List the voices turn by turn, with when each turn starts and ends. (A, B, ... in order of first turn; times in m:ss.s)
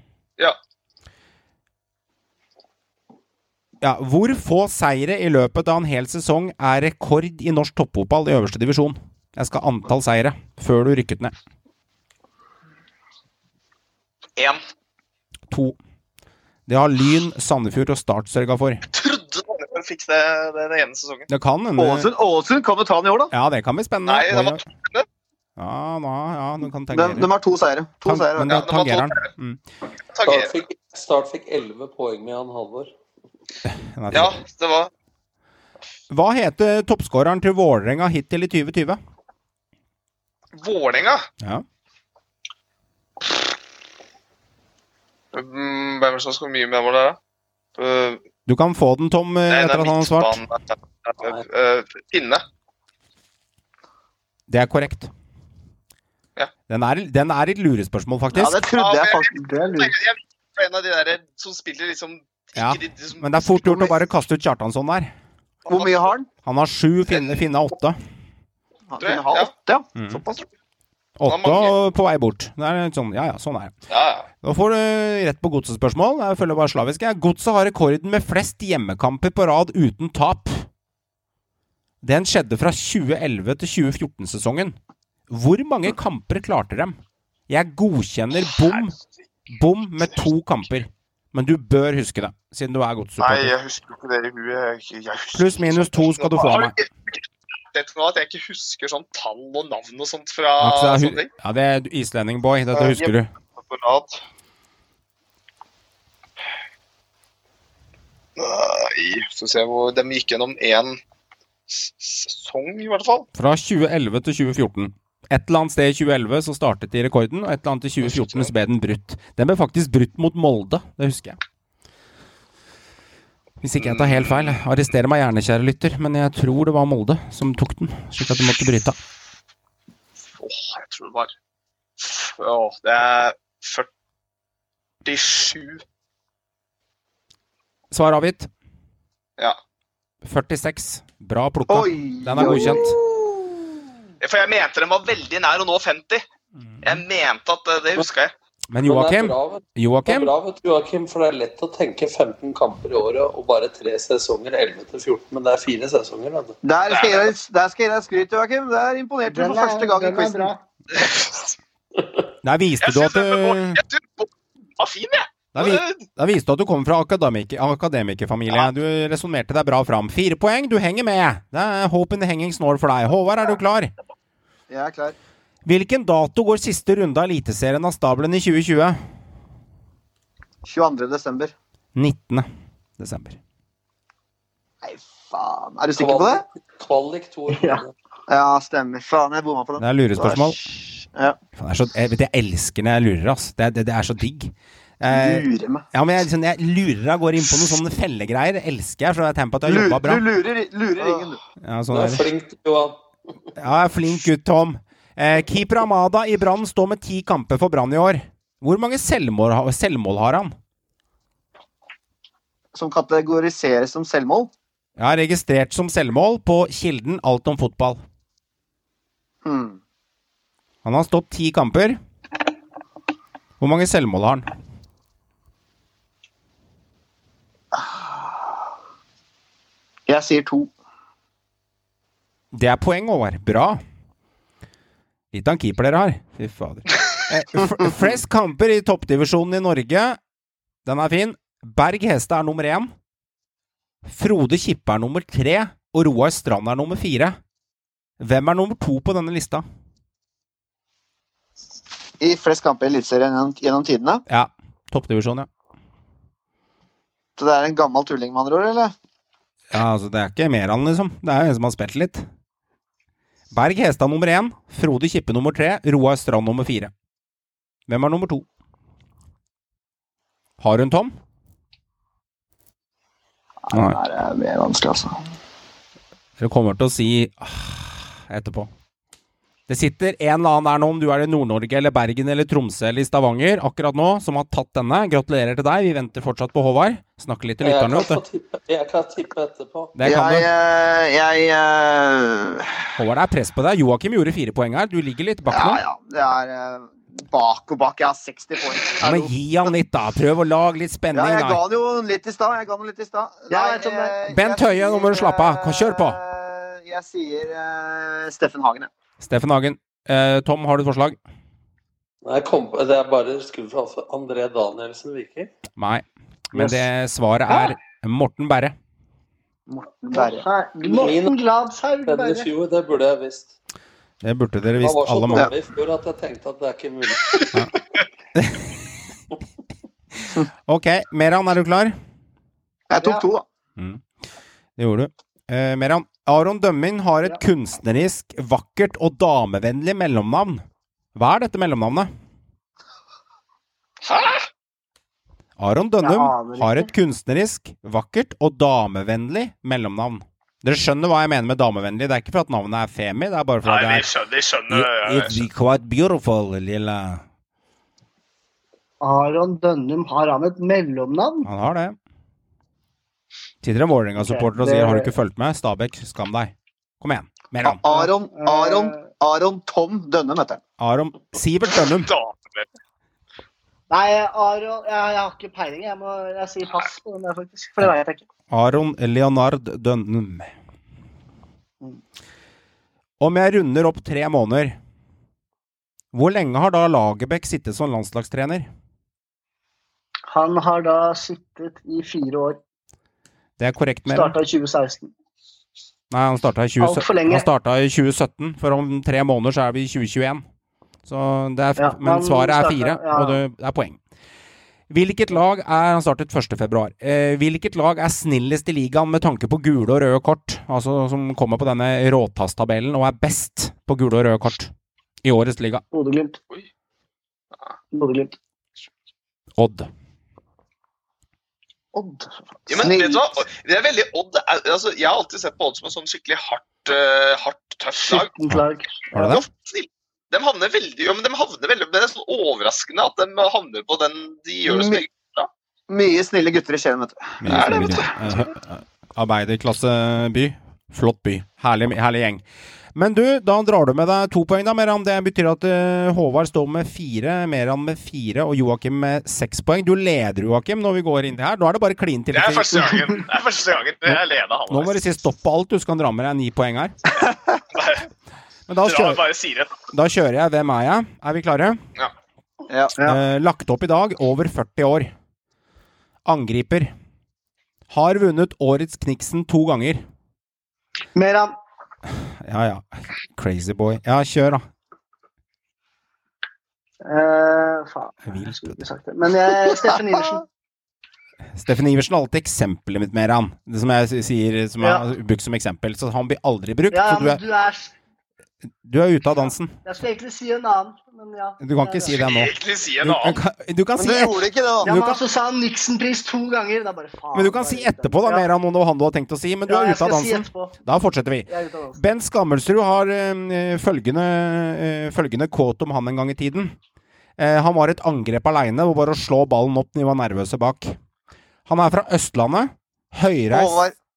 0:03.8-0:11.3 A
0:15.5-0:15.8 A
0:16.7-0:18.8 A
0:18.9-0:21.3 B
0:21.3-0:22.1 A
0:21.8-0:23.3 C
0:23.3-0:24.6 A
0:24.1-0:25.0 B
0:25.6-0:27.3 A
0:26.9-0:28.6 C
0:28.0-0:29.6 A
0:28.5-0:29.2 B
0:30.1-0:30.6 B
0:30.2-0:32.9 D
0:33.6-0:34.4 A
0:34.1-0:34.9 B
0:36.1-0:39.0 A
0:40.6-0:41.2 B
0:45.3-0:47.2 B
0:47.8-0:48.2 B
0:48.5-0:50.4 A
0:49.5-0:52.4 B
0:54.5-0:55.1 A
0:56.7-0:58.6 A
0:58.3-0:59.3 C
0:58.8-1:03.5 B
0:59.3-1:00.0 E
1:02.6-1:05.1 A
1:03.6-1:03.9 C
1:05.6-1:06.3 C
1:05.8-1:06.1 B
1:06.4-1:08.0 A
1:08.9-1:10.5 C
1:09.0-1:09.5 B
1:10.0-1:10.2 A
1:11.2-1:13.7 A
1:11.3-1:11.7 B
1:13.9-1:14.3 B
1:14.4-1:20.6 A
1:22.0-1:24.8 A
1:25.3-1:27.0 A
1:27.5-1:29.0 A
1:28.5-1:28.8 B
1:29.5-1:33.5 A
1:33.2-1:37.1 B
1:35.3-1:36.8 A
1:37.7-1:41.3 B
1:40.6-1:43.3 A
1:42.7-1:44.2 B
1:48.4-1:51.0 B
1:51.7-1:53.3 B
1:53.3-2:01.4 A
1:58.2-1:58.5 B
2:03.6-2:09.0 A
2:03.8-2:04.6 B
2:10.4-2:11.3 B
2:12.0-2:13.9 B
2:15.0-2:15.8 B
2:17.9-2:18.5 A
2:20.2-2:22.9 A
2:21.7-2:23.5 C
2:24.2-2:26.2 B
2:26.8-2:28.3 B
2:28.7-2:30.3 A
2:28.8-2:36.6 D
2:36.6-2:40.5 C
2:36.9-2:37.3 B
2:39.3-2:40.6 E
2:40.9-2:41.5 B
2:42.4-2:43.8 A
2:42.8-2:46.0 B
2:45.5-2:53.9 A
2:54.7-2:55.2 C
2:55.6-2:59.0 A
3:00.6-3:01.5 C
3:02.0-3:02.5 A
3:03.0-3:03.4 A
3:04.8-3:06.4 C
3:06.0-3:07.9 D
3:07.5-3:07.8 E
3:08.3-3:10.5 C
3:09.8-3:10.6 A
3:11.6-3:20.2 A
3:15.1-3:15.8 C
3:19.6-3:21.4 C
3:21.6-3:22.3 A
3:21.9-3:23.0 D
3:23.6-3:30.5 A
3:32.7-3:34.5 C
3:35.0-3:38.0 A
3:39.4-3:39.8 C
3:40.8-3:42.0 A
3:43.6-3:44.5 A
3:47.7-3:48.5 C
3:50.1-3:50.7 C
3:52.5-3:53.8 A
3:55.3-4:00.2 A
3:57.6-3:57.9 C
4:00.8-4:02.9 A
4:04.0-4:07.4 A
4:08.2-4:09.6 A
4:12.2-4:14.2 C
4:14.3-4:15.5 A
4:17.4-4:18.9 C
4:19.7-4:22.3 A
4:23.5-4:26.9 A
4:27.9-4:28.4 A
4:30.6-4:31.1 A
4:33.6-4:35.1 C
4:33.7-4:34.0 A
4:36.4-4:38.7 A
4:39.7-4:48.2 A
4:47.6-4:49.9 D
4:50.0-4:50.5 A
4:50.0-4:52.9 C
4:53.0-4:55.8 A
4:55.5-4:59.7 C
4:59.0-5:01.6 A
5:01.1-5:08.9 C
5:03.5-5:04.2 E
5:04.3-5:06.2 A
5:09.2-5:11.2 A
5:12.2-5:15.5 D
5:15.8-5:18.8 A
5:16.5-5:16.8 E
5:19.7-5:22.5 E
5:20.1-5:20.4 C
5:20.8-5:21.4 D
5:22.0-5:23.5 D
5:24.2-5:25.5 A
5:24.8-5:27.4 D
5:28.3-5:28.7 A
5:30.7-5:32.0 A
5:32.9-5:33.4 C
5:33.0-5:33.2 E
5:33.8-5:34.0 A
5:34.8-5:40.6 A
5:41.1-5:42.1 A
5:44.0-5:44.5 B
5:45.6-5:54.0 A
5:46.0-5:46.9 E
5:53.6-5:55.4 B
5:54.7-5:57.2 A
5:59.0-6:01.5 E
6:01.4-6:02.0 A
6:03.6-6:07.8 A
6:04.2-6:05.1 E
6:07.6-6:10.6 C
6:07.8-6:09.1 E
6:10.8-6:12.1 A
6:12.0-6:12.6 B
6:13.9-6:18.2 E
6:18.5-6:20.5 A
6:23.2-6:24.8 A
6:26.1-6:28.7 A
6:30.3-6:32.6 E
6:33.6-6:34.4 A
6:34.1-6:35.1 E
6:36.1-6:40.4 A
6:36.8-6:37.5 E
6:41.0-6:44.0 A
6:41.8-6:43.4 E
6:44.9-6:54.7 A
6:55.2-6:55.8 A
6:55.9-6:56.4 E
6:57.9-6:58.4 E
6:59.6-6:59.9 A
7:01.9-7:03.0 E
7:02.7-7:08.3 B
7:02.7-7:03.2 C
7:08.0-7:09.3 E
7:08.5-7:09.4 A
7:09.2-7:15.5 B
7:14.6-7:15.0 C
7:15.9-7:18.0 C
7:17.4-7:22.4 A
7:17.5-7:18.2 B
7:22.9-7:32.9 A
7:32.3-7:35.0 B
7:34.0-7:36.9 A
7:37.7-7:38.1 B
7:38.7-7:39.2 A
7:38.8-7:39.8 B
7:39.9-7:41.8 A
7:42.7-7:43.1 C
7:43.0-7:45.1 A
7:46.2-7:46.9 A
7:47.9-7:50.0 A
7:51.1-7:51.6 E
7:52.4-7:54.6 A
7:57.0-8:00.4 E
7:58.2-7:58.8 A
8:01.6-8:07.4 A
8:04.8-8:05.1 E
8:06.9-8:07.9 E
8:08.8-8:09.8 A
8:09.4-8:12.2 E
8:11.6-8:15.1 A
8:12.1-8:13.4 B
8:14.0-8:15.2 C
8:14.8-8:18.5 E
8:17.3-8:26.7 A
8:19.6-8:20.7 E
8:21.5-8:22.0 E
8:27.4-8:31.0 A
8:31.7-8:33.8 A
8:33.5-8:33.9 C